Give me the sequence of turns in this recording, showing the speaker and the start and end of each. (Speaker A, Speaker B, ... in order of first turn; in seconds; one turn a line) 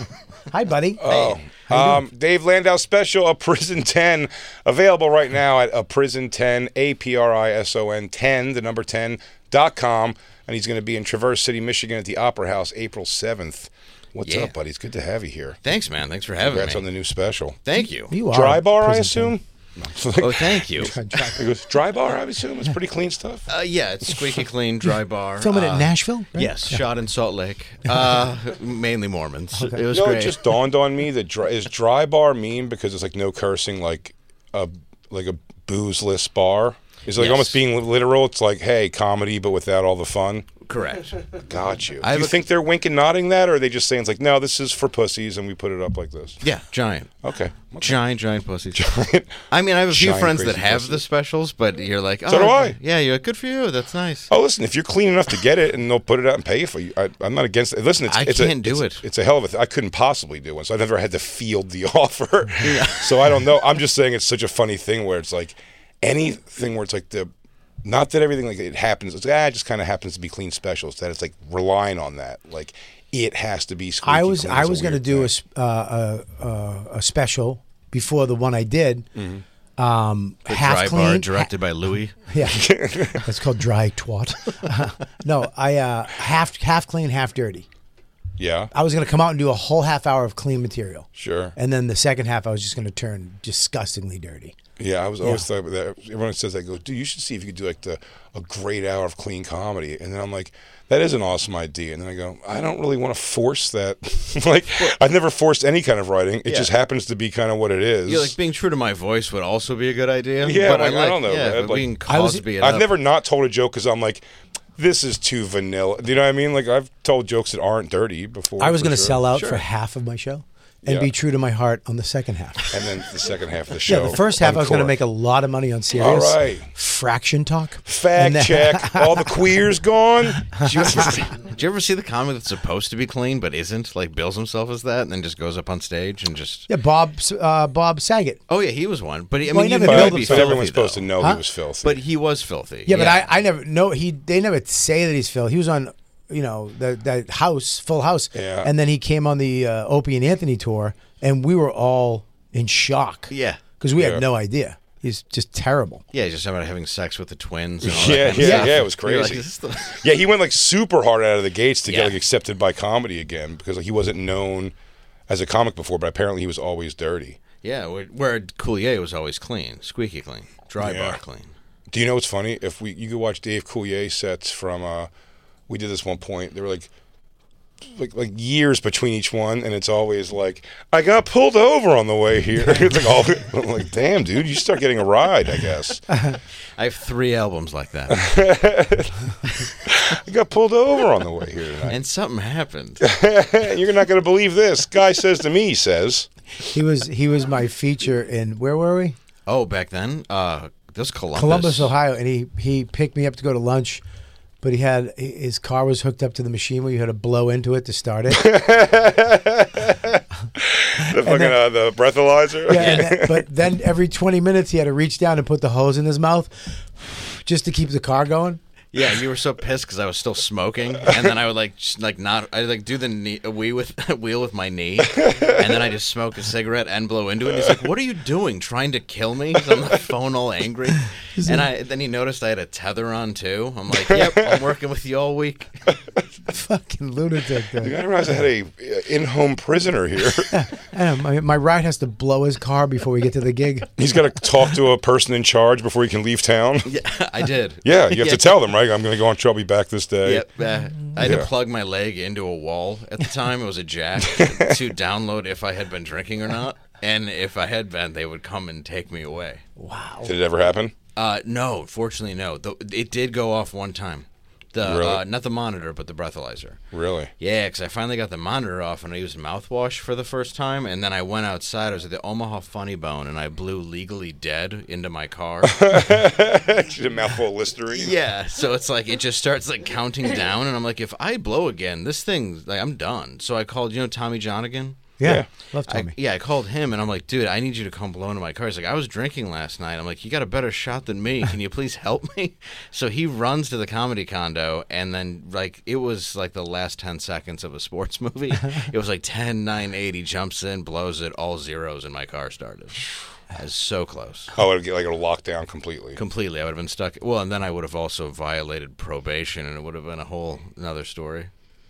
Speaker A: 0.5-1.0
Speaker B: 1.0-15.6
Speaker C: 1.1-1.4
Speaker A: 1.7-2.0
Speaker C: 14.2-14.5
Speaker C: 15.6-16.9
Speaker B: 16.4-17.6
Speaker C: 17.6-18.2
Speaker A: 18.1-19.4
Speaker B: 18.3-20.7
Speaker C: 20.2-21.0
Speaker A: 20.8-21.5
Speaker B: 21.4-23.5
Speaker C: 23.5-30.4
Speaker A: 25.4-26.8
Speaker A: 29.6-29.8
Speaker B: 29.9-40.5
Speaker C: 37.1-37.6
Speaker C: 40.6-41.2
Speaker B: 41.5-46.4
Speaker C: 42.0-42.5
Speaker C: 46.4-47.1
Speaker B: 47.2-48.0
Speaker C: 47.8-48.9
Speaker B: 48.8-51.0
Speaker C: 49.5-54.3
Speaker B: 52.3-52.8
Speaker B: 54.3-67.3
Speaker C: 58.1-59.0
Speaker C: 62.6-63.3
Speaker B: 67.8-75.3
Speaker A: 74.0-79.1
Speaker B: 79.2-79.4
Speaker A: 79.8-81.5
Speaker C: 80.5-82.2
Speaker A: 82.3-87.7
Speaker B: 82.5-83.2
Speaker B: 88.4-88.7
Speaker A: 88.7-94.5
Speaker B: 91.2-91.5
Speaker B: 94.8-108.3
Speaker A: 95.2-95.5
Speaker C: 108.1-113.0
Speaker B: 110.4-111.9
Speaker A: 112.1-112.5
Speaker B: 112.6-114.2
Speaker B: 114.8-119.2
Speaker A: 118.6-122.7
Speaker C: 119.3-119.6
Speaker B: 120.8-121.1
Speaker B: 122.7-125.0
Speaker A: 123.9-129.3
Speaker B: 126.0-126.7
Speaker B: 127.9-130.6
Speaker C: 130.6-136.7
Speaker A: 136.7-138.4
Speaker C: 138.5-141.1
Speaker A: 139.5-140.7
Speaker B: 139.9-142.0
Speaker C: 141.8-143.3
Speaker A: 142.9-156.0
Speaker B: 148.3-148.7
Speaker C: 153.3-153.6
Speaker B: 154.0-154.2
Speaker C: 156.1-160.0
Speaker B: 157.8-164.7
Speaker A: 158.3-158.7
Speaker C: 161.9-162.2
Speaker B: 165.3-167.4
Speaker C: 167.5-171.5
Speaker B: 170.8-171.2
Speaker B: 171.9-175.1
Speaker B: 175.7-176.9
Speaker B: 177.9-186.0
Speaker C: 186.8-188.2
Speaker B: 188.1-189.2
Speaker B: 189.8-192.0
Speaker C: 191.9-193.0
Speaker B: 193.0-196.3
Speaker A: 196.7-199.2
Speaker C: 199.5-201.9
Speaker A: 201.3-204.0
Speaker A: 204.6-208.5
Speaker B: 208.3-213.4
Speaker A: 211.0-211.6
Speaker A: 212.7-218.6
Speaker C: 212.8-213.2
Speaker C: 218.9-235.7
Speaker B: 227.5-227.8
Speaker A: 231.4-231.7
Speaker B: 233.9-234.6
Speaker A: 236.5-238.0
Speaker B: 237.8-240.5
Speaker A: 240.5-243.9
Speaker B: 244.0-246.9
Speaker C: 246.8-248.6
Speaker B: 247.8-250.5
Speaker C: 250.2-259.6
Speaker B: 251.2-251.5
Speaker B: 254.2-254.8
Speaker A: 259.8-260.4
Speaker B: 260.2-260.9
Speaker C: 261.2-266.8
Speaker B: 264.8-265.2
Speaker B: 266.9-267.3
Speaker C: 267.4-276.0
Speaker B: 275.6-278.1
Speaker C: 277.9-285.2
Speaker A: 285.2-286.1
Speaker B: 285.2-285.5
Speaker C: 285.9-304.5
Speaker B: 304.6-306.2
Speaker C: 306.2-311.5